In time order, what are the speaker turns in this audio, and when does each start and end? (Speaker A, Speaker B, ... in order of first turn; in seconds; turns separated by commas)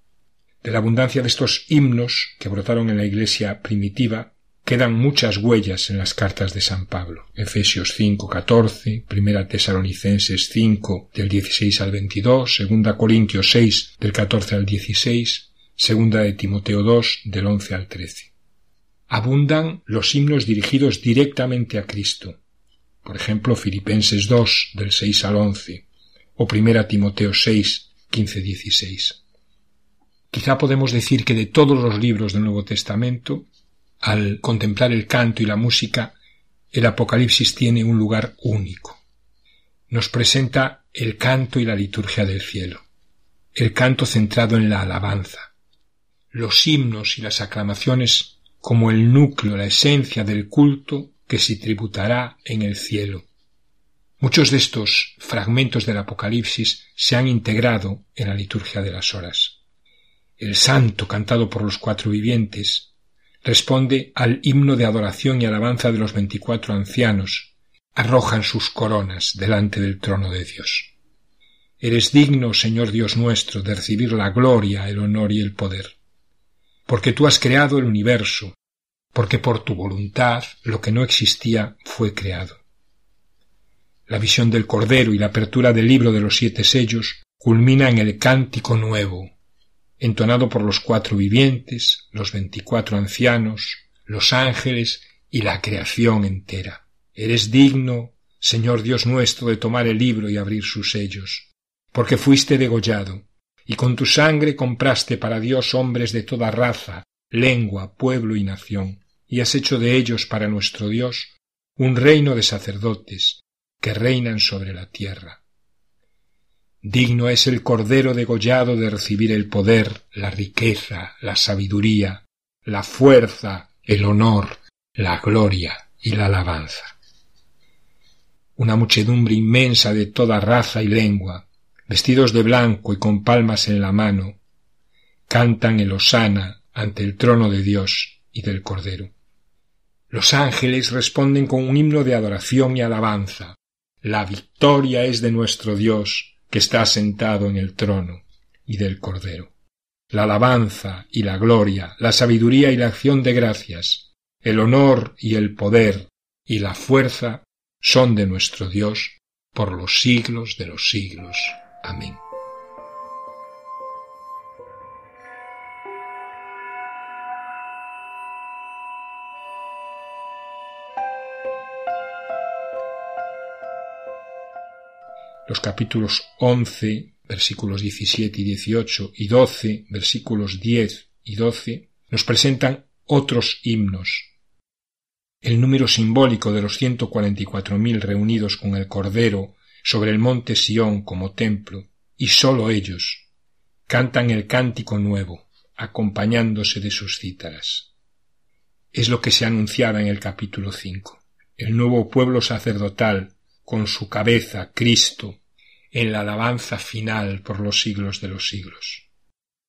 Speaker A: 0.6-18.3, Speaker A: 19.1-22.4, Speaker A: 23.0-25.9, Speaker A: 26.4-29.2, Speaker A: 30.3-33.5, Speaker A: 34.0-36.1, Speaker A: 36.7-39.0, Speaker A: 39.9-42.8, Speaker A: 43.5-45.5, Speaker A: 46.3-53.2, Speaker A: 54.2-59.6, Speaker A: 60.4-62.9, Speaker A: 63.4-70.9, Speaker A: 71.8-76.0, Speaker A: 76.9-78.6, Speaker A: 79.1-82.6, Speaker A: 84.1-89.3, Speaker A: 90.0-115.4, Speaker A: 116.8-126.9, Speaker A: 128.6-134.4, Speaker A: 135.3-139.1, Speaker A: 140.1-149.5, Speaker A: 150.1-162.2, Speaker A: 175.5-184.3, Speaker A: 185.4-193.3, Speaker A: 193.9-197.9, Speaker A: 198.9-205.4, Speaker A: 205.9-209.1